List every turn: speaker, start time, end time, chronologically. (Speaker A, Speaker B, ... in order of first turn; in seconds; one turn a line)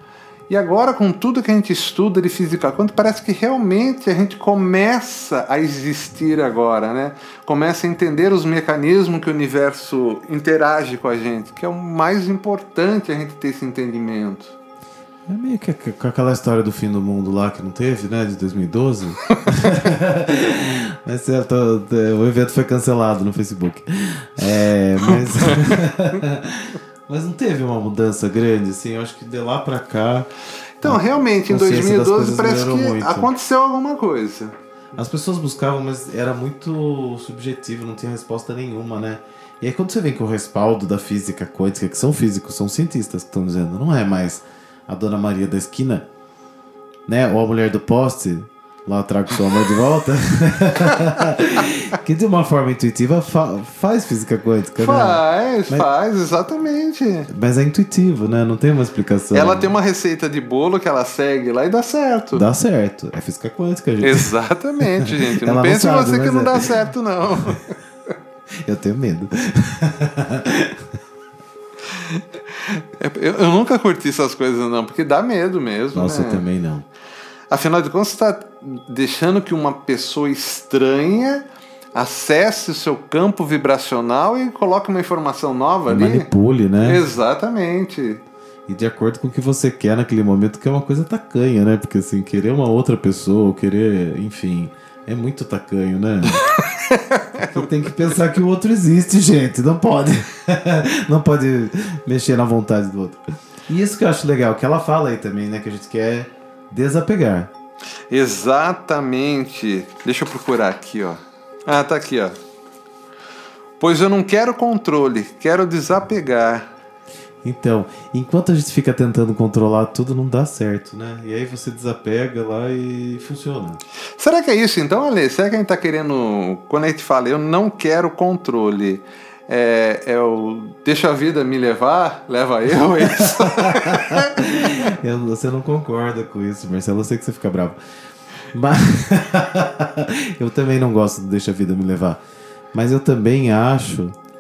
Speaker A: 0.5-14.6
Speaker B: 15.3-30.3
Speaker A: 25.1-25.8
Speaker A: 30.8-34.5
Speaker B: 30.8-33.3
Speaker B: 35.0-46.1
Speaker B: 47.1-55.9
Speaker A: 54.8-57.3
Speaker B: 57.3-59.7
Speaker A: 59.3-62.5
Speaker B: 62.3-66.7
Speaker A: 64.0-67.8
Speaker B: 68.6-70.8
Speaker A: 72.0-76.5
Speaker B: 75.9-76.9
Speaker A: 77.5-81.4
Speaker A: 82.0-86.3
Speaker B: 85.9-87.0
Speaker A: 86.8-88.2
Speaker B: 88.7-96.4
Speaker A: 96.4-97.6
Speaker B: 97.4-107.5
Speaker A: 108.1-112.4
Speaker A: 113.8-116.7
Speaker B: 117.4-123.8
Speaker A: 124.2-134.9
Speaker B: 133.1-137.8
Speaker B: 138.5-142.2
Speaker B: 142.7-144.2